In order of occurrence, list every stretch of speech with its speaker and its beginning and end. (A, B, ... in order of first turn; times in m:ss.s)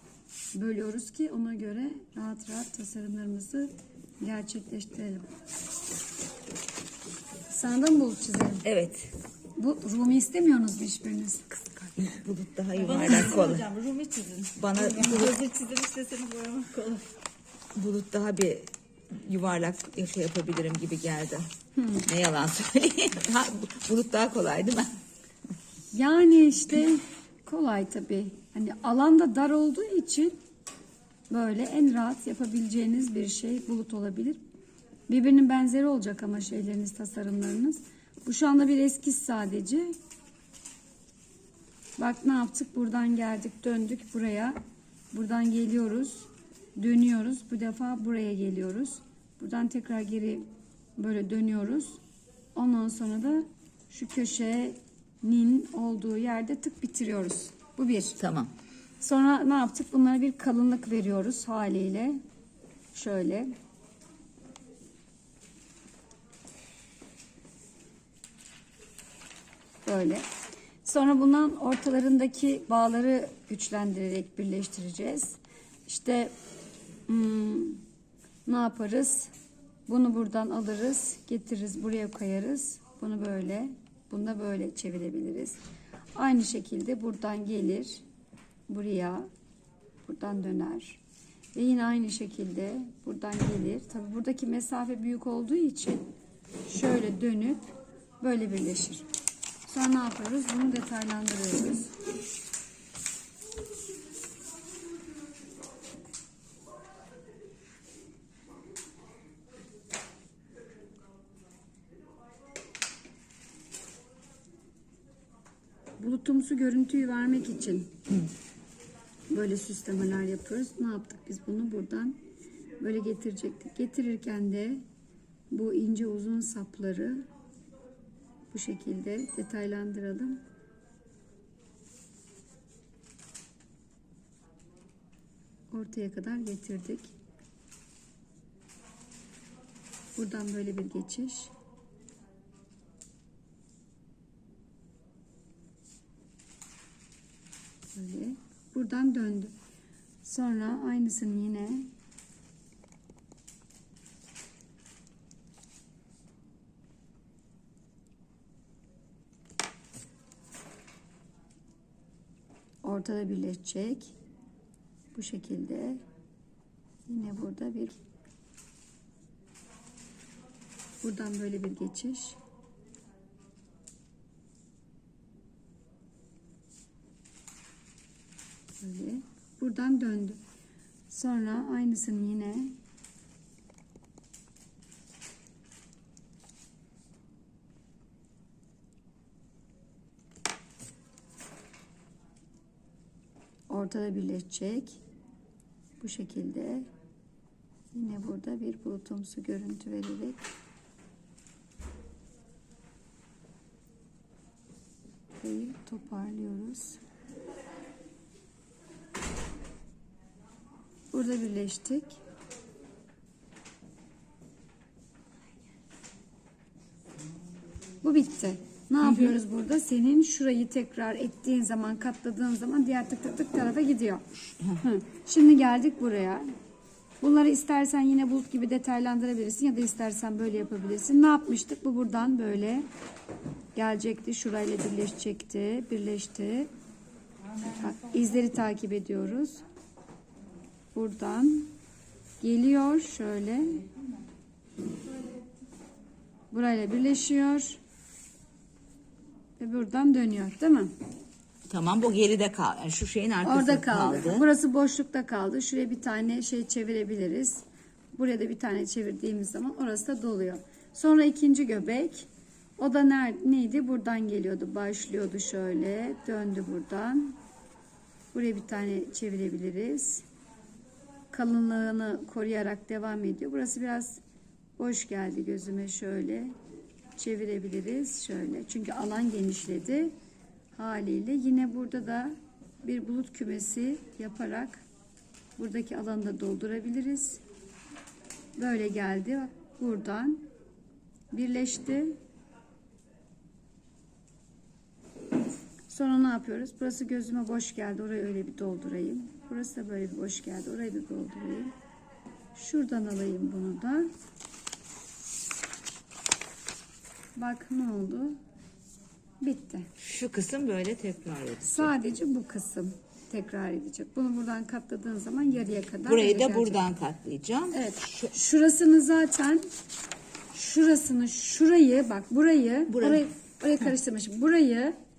0:00.6-0:05.3 A
0:07.5-0:08.7 A
0:08.6-0:09.1 B
0:09.6-0:11.5 A
0:11.8-0:13.7 B
0:12.8-0:17.1 C
0:14.6-0:15.4 B
0:17.8-0:25.0 B
0:21.8-0:22.0 A
0:25.9-0:30.4 A
0:31.3-0:34.4 A
0:35.1-0:40.0 A
0:42.0-0:44.6 A
0:45.1-0:50.5 A
0:51.0-0:52.0 A
0:52.6-0:58.2 A
0:58.2-0:58.5 B
0:59.0-1:02.2 A
1:02.9-1:03.5 A
1:09.8-1:10.3 A
1:10.8-1:16.3 A
1:17.1-1:17.8 A
1:18.5-1:19.3 A
1:19.9-1:25.6 A
1:26.2-1:28.0 A
1:28.7-1:29.3 A
1:30.1-1:31.0 A
1:31.5-1:36.1 A
1:36.7-1:39.1 A
1:39.6-1:41.9 A
1:56.0-1:58.0 A
1:59.3-2:02.2 A
2:02.8-2:04.8 A
2:05.5-2:07.3 A
2:08.5-2:10.4 A
2:15.7-2:17.2 A
2:20.2-2:21.5 A
2:27.9-2:29.6 A
2:30.2-2:31.9 A
2:42.8-2:44.2 A
2:45.1-2:46.0 A
2:47.1-2:48.0 A
2:51.0-2:52.4 A
2:58.8-3:00.4 A
3:01.1-3:02.8 A
3:13.7-3:15.0 A
3:16.0-3:16.9 A
3:17.9-3:20.5 A
3:25.4-3:27.0 A
3:31.1-3:32.2 A
3:38.0-3:44.3 A
3:39.0-3:39.4 B
3:44.8-3:46.5 A
3:47.2-3:52.9 A
3:53.8-3:56.7 A
3:57.6-3:59.6 A
4:00.9-4:01.7 A
4:02.4-4:03.8 A
4:06.5-4:07.8 A
4:09.6-4:10.9 A
4:11.7-4:14.5 B
4:13.4-4:27.4 A
4:28.3-4:30.2 A
4:31.3-4:34.2 A
4:34.8-4:36.6 A
4:37.2-4:40.1 A
4:40.8-4:44.8 A
4:45.6-4:47.4 A
4:48.6-4:50.5 A
4:51.3-4:52.2 A
4:55.9-5:01.7 A
5:02.6-5:04.1 A
5:07.4-5:08.4 A
5:09.4-5:09.9 A
5:10.0-5:11.9 B
5:11.6-5:16.9 A
5:16.1-5:18.3 B
5:17.7-5:19.7 A
5:20.5-5:25.0 A
5:22.9-5:23.3 B